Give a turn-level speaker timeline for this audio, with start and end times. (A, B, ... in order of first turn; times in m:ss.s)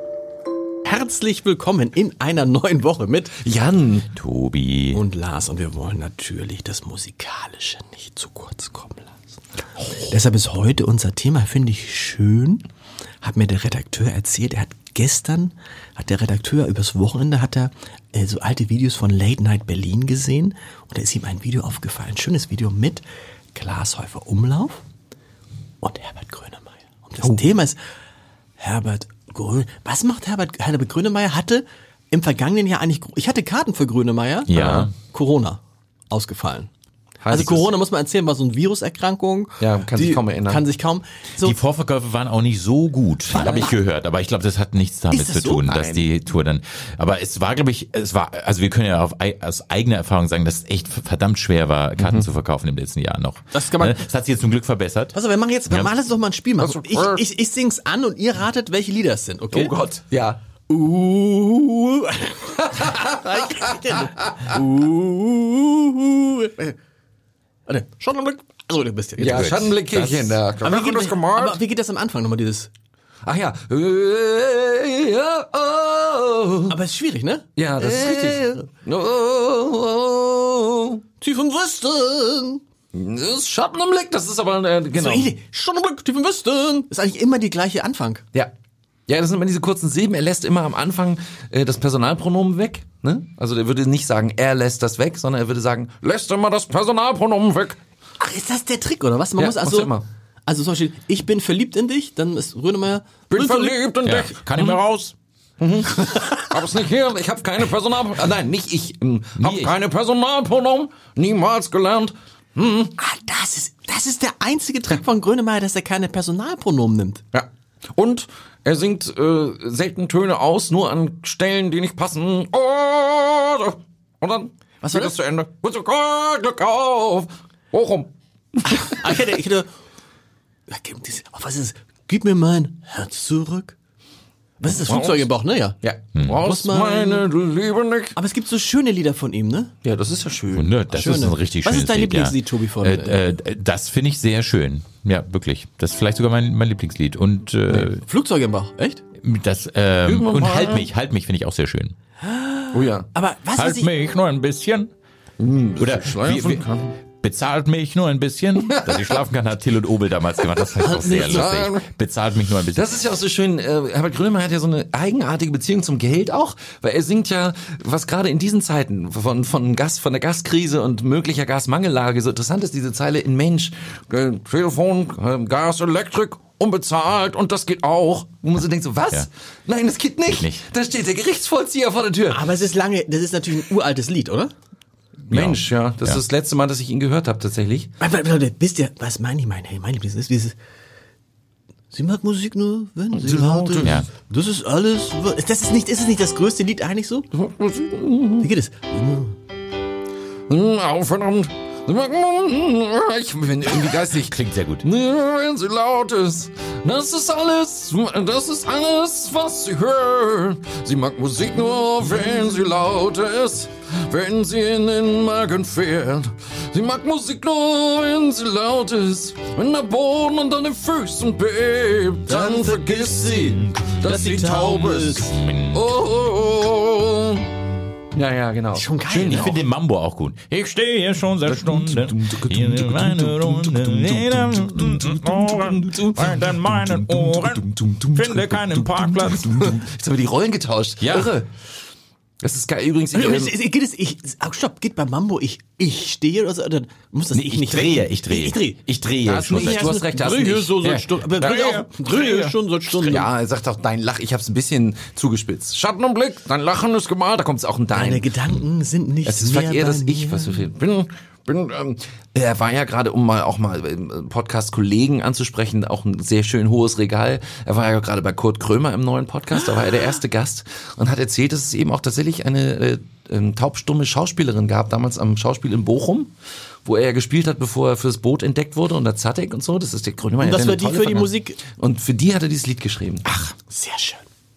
0:00.8-0:03.4 A
0:03.4-0:04.1 B
0:04.1-0:05.0 C
0:04.9-0:09.3 A
0:09.9-0:12.6 A
0:13.2-0:23.0 A
0:23.5-0:24.8 A
0:25.8-0:27.8 A
0:28.6-0:36.7 A
0:34.5-0:34.9 C
0:34.5-0:34.9 B
0:37.2-0:37.7 B
0:37.3-0:41.6 A
0:39.6-0:40.6 B
0:41.4-0:55.2 C
0:43.3-0:43.7 A
0:43.4-0:43.7 B
0:45.1-0:46.0 A
0:52.0-0:52.3 B
0:53.5-0:54.0 A
0:55.1-1:00.0 A
0:56.6-0:57.2 B
0:59.5-1:00.4 B
1:00.7-1:06.8 A
1:02.8-1:03.1 B
1:07.7-1:09.8 A
1:09.2-1:11.6 B
1:09.2-1:10.4 C
1:10.6-1:12.7 A
1:13.2-1:16.8 B
1:16.7-1:18.6 A
1:17.6-1:21.0 B
1:21.2-1:22.6 A
1:22.9-1:25.3 B
1:24.9-1:28.2 A
1:29.1-1:37.8 B
1:38.2-1:43.8 A
1:39.4-1:40.0 B
1:43.3-1:44.8 B
1:44.0-1:45.1 C
1:45.6-1:52.9 B
1:49.4-1:49.7 C
1:53.0-1:57.2 A
1:57.3-2:09.2 B
2:04.8-2:05.1 A
2:08.7-2:09.7 A
2:10.7-2:13.8 A
2:14.6-2:17.3 A
2:14.8-2:15.3 B
2:15.8-2:18.2 B
2:18.2-2:19.7 A
2:19.8-2:20.7 B
2:20.5-2:28.0 C
2:20.6-2:23.3 A
2:28.0-2:29.0 A
2:29.2-2:32.0 C
2:30.0-2:30.9 B
2:32.2-2:34.0 A
2:32.7-2:33.1 B
2:33.6-2:34.9 C
2:35.4-2:37.0 B
2:35.8-2:36.7 C
2:37.2-2:42.9 C
2:38.7-2:39.2 B
2:40.6-2:41.9 B
2:40.8-2:41.5 A
2:42.7-3:02.4 B
3:00.3-3:00.6 C
3:02.3-3:04.5 A
3:05.3-3:07.9 B
3:05.3-3:06.2 C
3:08.0-3:10.6 A
3:11.9-3:17.3 A
3:13.1-3:14.0 B
3:13.8-3:14.1 C
3:17.3-3:18.5 B
3:18.4-3:19.4 A
3:20.5-3:47.5 B
3:24.1-3:24.9 C
3:42.3-3:45.3 A
3:45.2-3:45.9 C
3:48.1-3:49.6 B
3:48.7-3:49.6 A
3:49.2-3:59.9 C
3:51.4-4:01.5 B
4:01.0-4:01.4 C
4:02.4-4:03.5 B
4:03.1-4:08.8 A
4:07.3-4:10.0 C
4:09.2-4:12.2 B
4:09.5-4:13.3 A
4:11.4-4:12.6 C
4:12.9-4:18.3 B
4:17.9-4:20.7 A
4:19.3-4:36.3 B
4:36.8-4:43.3 B
4:40.4-4:41.6 A
4:43.3-4:44.2 A